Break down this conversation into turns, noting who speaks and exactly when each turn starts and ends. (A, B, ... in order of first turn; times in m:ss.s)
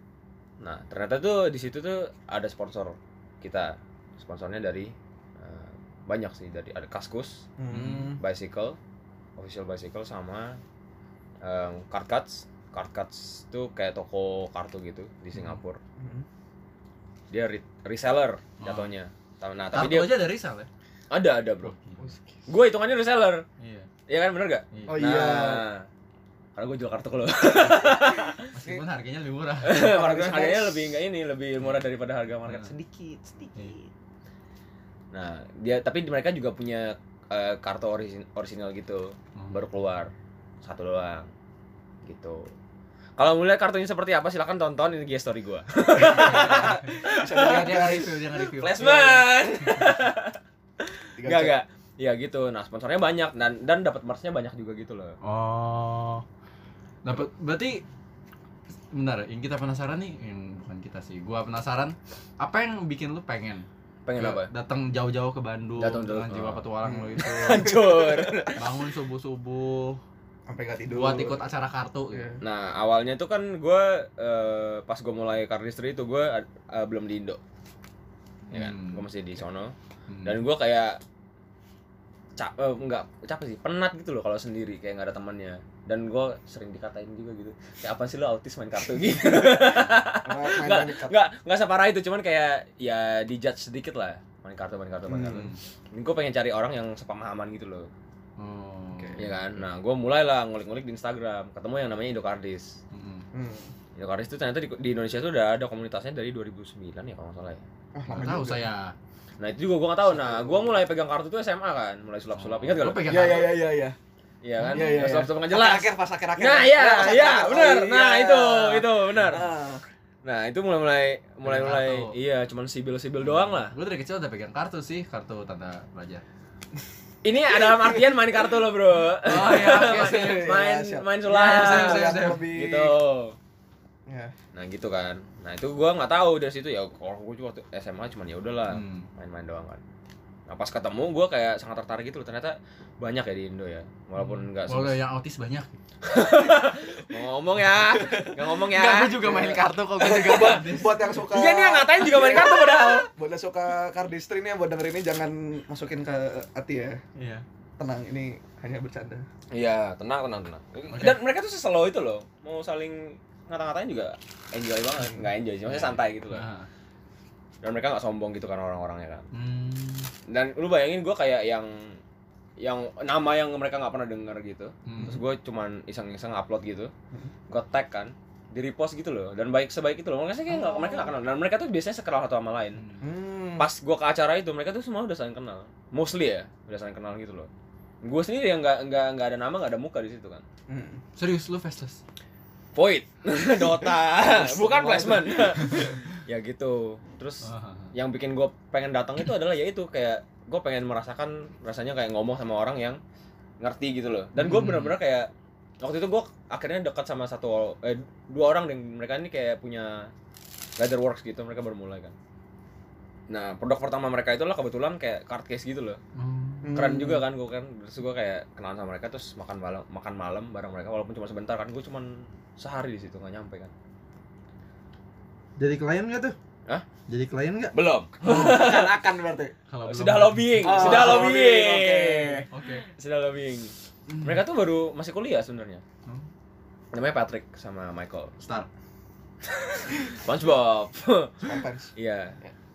0:00.6-0:07.5 A
0:07.6-0:08.2 B
0:07.7-0:08.2 C
0:08.2-0:08.8 A
0:09.4-0:10.6 A
0:11.4-0:15.8 A
0:15.3-0:15.6 C
0:16.0-0:16.2 B
0:17.3-0:20.1 A
0:18.6-0:18.9 C
0:19.7-0:20.7 C
0:21.1-0:21.7 A
0:21.6-0:22.1 C
0:22.5-0:23.4 A
0:23.6-0:23.9 C
0:24.1-0:25.9 A
0:24.7-0:25.0 C
0:24.9-0:25.6 B
0:26.6-0:28.4 A
0:28.5-0:29.8 C
0:29.6-0:33.9 A
0:29.8-0:30.9 B
0:32.4-0:32.7 C
0:35.1-0:40.1 A
0:39.4-0:39.6 C
0:40.6-0:41.3 A
0:42.1-0:42.4 A
0:43.2-0:50.4 A
0:46.0-0:49.0 C
0:46.3-0:48.2 B
0:48.8-0:49.3 B
0:51.2-0:55.2 A
0:51.2-0:51.6 B
0:55.2-0:56.2 C
0:57.0-0:57.8 C
0:58.9-1:07.7 C
1:04.1-1:04.5 A
1:05.8-1:08.6 A
1:06.8-1:08.2 B
1:08.6-1:10.0 C
1:10.5-1:11.4 B
1:10.9-1:12.4 C
1:12.1-1:12.4 B
1:12.4-1:17.4 A
1:18.5-1:19.0 C
1:18.5-1:21.0 A
1:20.1-1:20.4 C
1:22.4-1:37.9 A
1:30.2-1:31.2 B
1:35.1-1:35.5 B
1:38.4-1:39.2 C
1:38.9-1:39.2 B
1:39.2-1:42.8 A
1:42.9-1:43.3 C
1:43.3-1:43.7 B
1:44.0-1:47.6 A
1:47.9-1:48.6 B
1:48.1-1:49.0 C
1:49.4-1:53.2 A
1:50.1-1:50.8 B
1:52.3-1:53.6 C
1:53.0-1:54.0 B
1:54.4-1:59.4 A
1:54.6-1:55.2 C
1:54.7-1:59.8 B
2:00.2-2:03.7 A
2:01.4-2:02.2 C
2:03.2-2:06.2 C
2:07.2-2:13.4 A
2:07.5-2:08.0 B
2:09.2-2:10.5 C
2:09.4-2:13.0 B
2:11.2-2:12.5 C
2:14.1-2:14.3 B
2:14.5-2:19.8 A
2:18.7-2:19.1 C
2:20.5-2:25.0 A
2:24.2-2:25.7 C
2:26.0-2:30.6 A
2:27.6-2:31.2 C
2:30.3-2:37.0 B
2:31.3-2:33.1 A
2:37.2-2:37.4 C
2:37.8-2:39.2 B
2:39.5-2:46.5 A
2:40.9-2:41.2 C
2:45.7-2:46.7 C
2:47.6-2:49.3 A
2:49.3-2:50.1 C
2:50.3-2:52.0 A
2:52.6-2:56.9 A
2:54.9-2:55.2 C
2:57.5-3:02.8 A
3:00.5-3:01.2 B
3:02.8-3:03.1 C
3:03.0-3:03.7 B
3:03.6-3:07.5 A
3:08.0-3:10.4 A
3:10.7-3:11.0 B
3:11.2-3:12.0 C
3:12.8-3:23.0 A
3:13.6-3:15.8 B
3:17.4-3:17.9 C
3:23.6-3:30.1 A
3:24.4-3:25.0 C
3:30.8-3:32.2 A
3:33.3-3:36.0 A
3:36.2-3:36.9 C
3:36.6-3:37.3 B
3:36.7-3:43.7 A
3:45.6-3:46.4 C
3:47.1-3:47.8 C
3:47.7-3:48.9 A
3:48.2-3:49.6 B
3:49.7-3:51.3 C
3:49.8-3:52.5 A
3:50.6-3:52.5 B
3:52.5-3:52.9 C
3:53.0-3:55.8 A
3:54.1-3:54.4 C
3:56.9-3:58.3 A
3:58.4-3:58.7 C
3:59.7-4:02.4 A
4:01.4-4:02.5 B